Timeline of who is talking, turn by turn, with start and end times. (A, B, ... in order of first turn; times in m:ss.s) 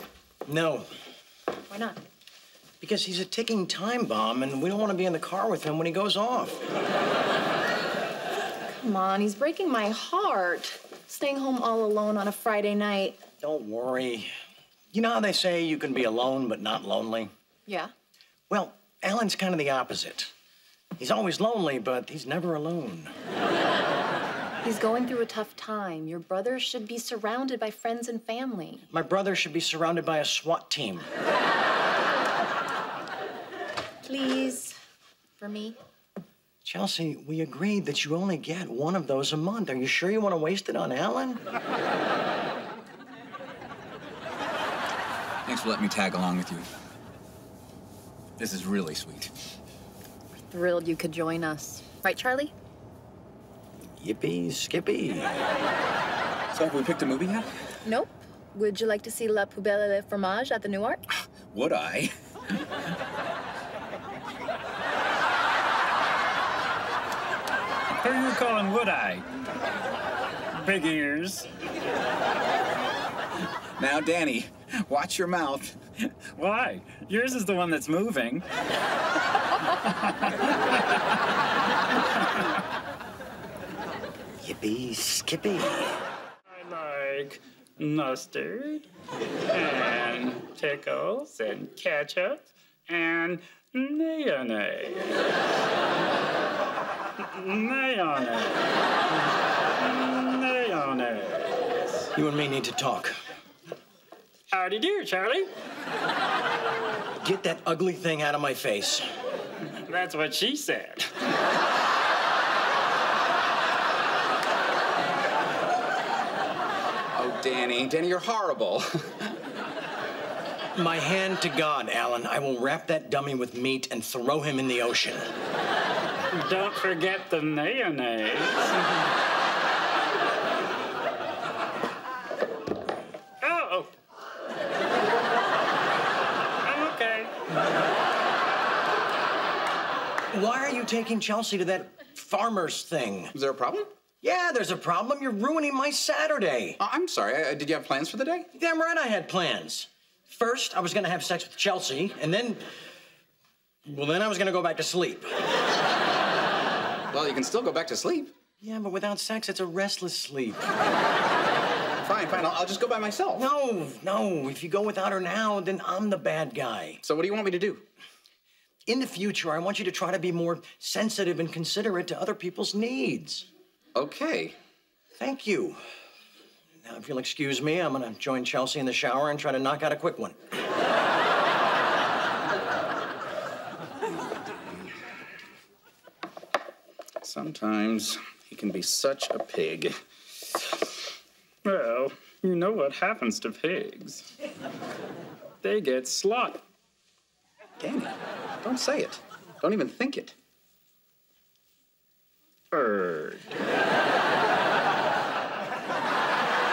0:00.4-0:00.9 A
0:01.7-0:02.0 B
0:02.8-0:06.6 A
0:08.6-0:13.2 B
0:13.4-0:14.3 A
0:14.9-0:17.3 A
0:18.5-0:20.3 A
0:21.0-0:23.1 A
0:24.6-0:28.8 B
0:28.9-0:31.1 A
0:34.0-0:34.8 B
0:35.4-0:35.8 B
0:36.6-0:41.4 A
0:45.4-0:46.7 C
0:48.4-0:49.3 C
0:50.5-0:52.5 B
0:54.0-0:55.3 A
0:56.5-0:57.5 C
0:57.8-1:01.0 B
1:01.5-1:02.1 C
1:08.0-1:09.3 D
1:10.5-1:11.5 D
1:13.8-1:15.8 C
1:16.3-1:18.4 D
1:19.8-1:20.5 D
1:24.4-1:26.0 A
1:26.5-1:28.9 D
1:29.5-1:35.2 D
1:37.2-1:38.7 D
1:39.8-1:42.1 D
1:42.1-1:43.2 A
1:44.5-1:45.5 D
1:47.2-1:49.1 A
1:49.8-1:51.1 D
1:57.1-1:59.3 C
2:00.7-2:05.3 A
2:06.3-2:09.0 D
2:13.4-2:13.9 D
2:16.6-2:17.3 D
2:20.3-2:23.3 A
2:23.3-2:23.9 C
2:24.2-2:26.8 A
2:26.8-2:28.5 C
2:28.5-2:32.6 A
2:33.8-2:35.3 A
2:37.1-2:38.3 C
2:38.6-2:40.7 A
2:42.0-2:43.4 C
2:43.3-2:47.0 A
2:47.0-2:47.8 C
2:48.9-2:53.5 A
2:53.9-2:54.6 C
2:55.2-2:55.8 A
2:56.8-3:00.4 A
3:07.2-3:10.0 C
3:11.6-3:14.3 D
3:15.6-3:16.6 D
3:17.8-3:20.3 C
3:22.7-3:23.5 D